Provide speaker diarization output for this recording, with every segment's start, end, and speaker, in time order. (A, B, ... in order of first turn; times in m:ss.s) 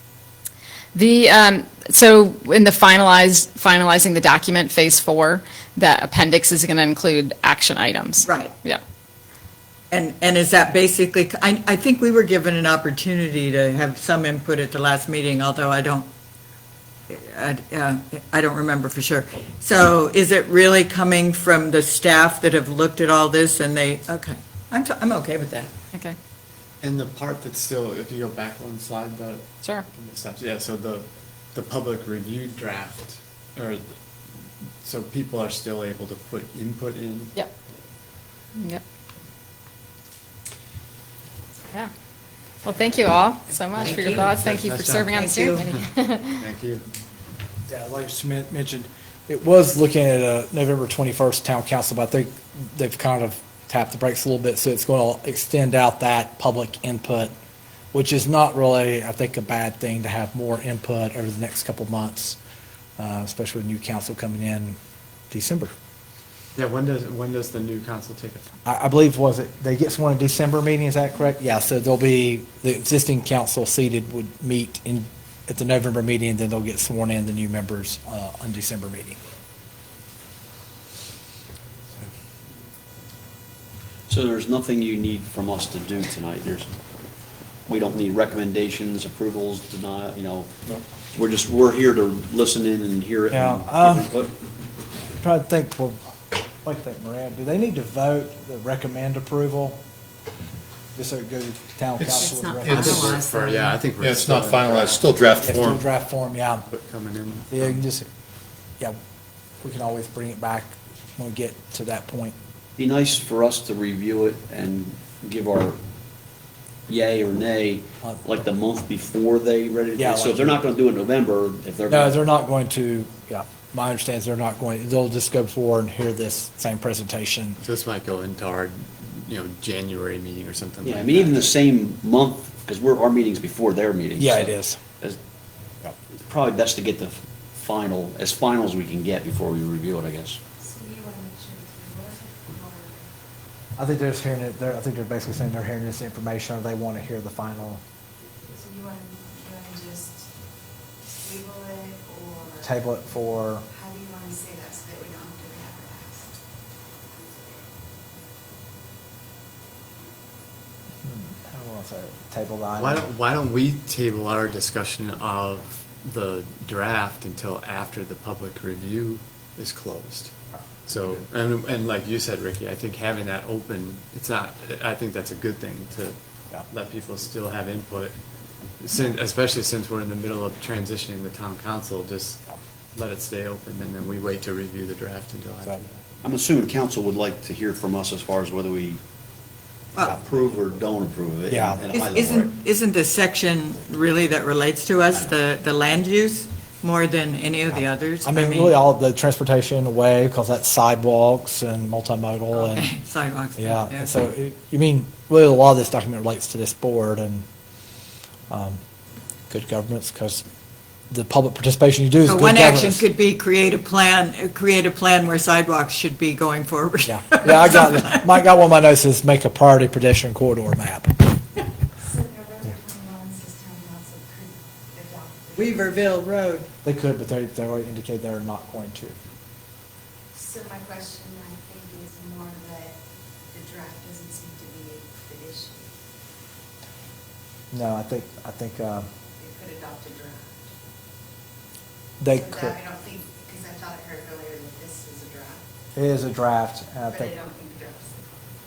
0:00.9-0:08.8 A
0:08.2-0:08.5 B
0:09.9-0:16.1 B
0:17.1-0:25.7 B
0:26.8-0:33.8 C
0:34.8-0:37.3 C
0:38.6-0:38.8 A
0:42.6-0:46.4 A
0:43.8-0:45.8 C
0:45.1-0:45.7 B
0:46.4-0:46.8 C
0:47.7-0:57.3 D
0:57.9-1:02.4 D
1:03.0-1:04.8 D
1:05.3-1:05.7 D
1:06.6-1:08.5 C
1:08.6-1:19.2 D
1:24.1-1:26.7 E
1:27.7-1:30.5 E
1:31.1-1:34.3 E
1:33.3-1:34.1 D
1:35.2-1:39.8 D
1:41.0-1:43.2 D
1:42.0-1:45.8 F
1:42.6-1:45.2 C
1:45.4-1:46.6 D
1:46.6-1:47.8 C
1:47.5-1:48.1 D
1:49.6-1:52.4 D
1:52.8-1:55.8 E
1:56.9-2:02.2 E
2:00.0-2:00.6 D
2:01.9-2:07.6 D
2:07.6-2:11.6 C
2:10.8-2:15.2 E
2:14.2-2:14.8 D
2:16.1-2:20.4 E
2:20.6-2:23.1 G
2:23.8-2:27.8 D
2:28.5-2:30.3 G
2:31.2-2:32.6 G
2:32.6-2:33.7 D
2:33.8-2:36.4 G
2:37.1-2:37.7 G
2:41.0-2:43.1 D
2:42.8-2:50.3 C
2:50.9-2:56.2 C
2:56.7-2:58.2 C
2:58.8-3:05.9 C
3:06.2-3:09.0 E
3:10.0-3:12.5 E
3:11.5-3:11.8 D
3:11.9-3:18.8 B
3:18.2-3:22.9 D
3:22.5-3:24.1 B
3:23.6-3:27.5 D
3:28.5-3:28.8 D
3:29.5-3:30.4 D
3:31.1-3:33.0 D
3:32.2-3:38.2 B
3:37.0-3:41.2 D
3:42.1-3:45.9 G
3:45.6-3:46.7 B
3:46.8-3:49.2 D
3:50.4-3:53.0 G
3:53.5-3:55.9 G
3:57.7-3:59.1 D
3:59.4-4:00.7 G
4:02.2-4:02.8 D
4:02.4-4:05.6 G
4:06.0-4:07.4 D
4:07.2-4:08.2 G